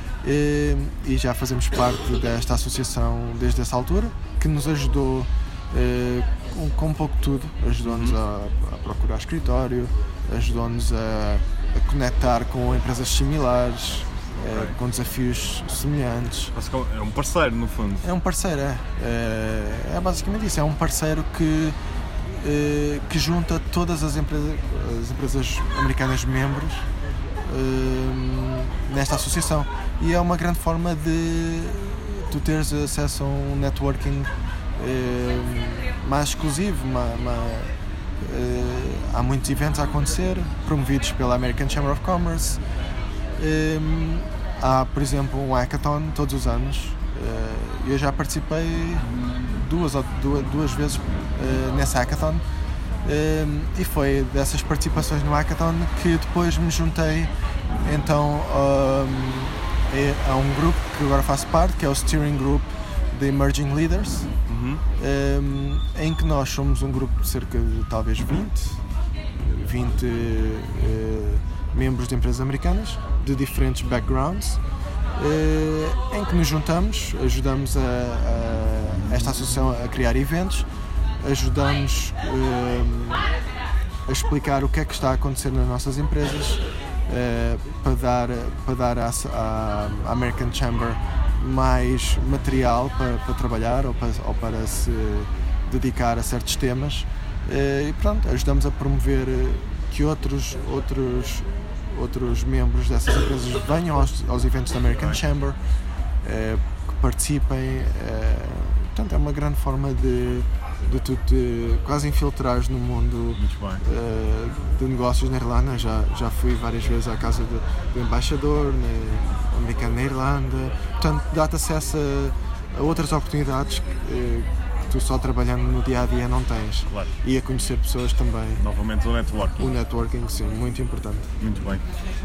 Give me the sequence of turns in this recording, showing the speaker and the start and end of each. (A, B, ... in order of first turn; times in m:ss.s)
0:00.2-0:16.5 A
0:07.8-0:08.2 B
0:16.5-0:18.1 B
0:18.0-0:21.8 A
0:22.3-0:26.9 A
0:27.4-0:42.6 A
0:43.4-0:52.4 A
0:53.0-0:57.3 A
0:57.8-1:04.3 A
1:04.5-1:04.8 B
1:05.0-1:08.8 A
1:09.4-1:14.6 A
1:15.2-1:20.7 A
1:21.2-1:23.3 A
1:24.1-1:45.6 A
1:46.2-2:08.6 A
1:53.4-1:53.8 B
2:06.9-2:07.1 B
2:08.6-2:09.7 B
2:09.6-2:11.3 A
2:11.4-2:11.8 B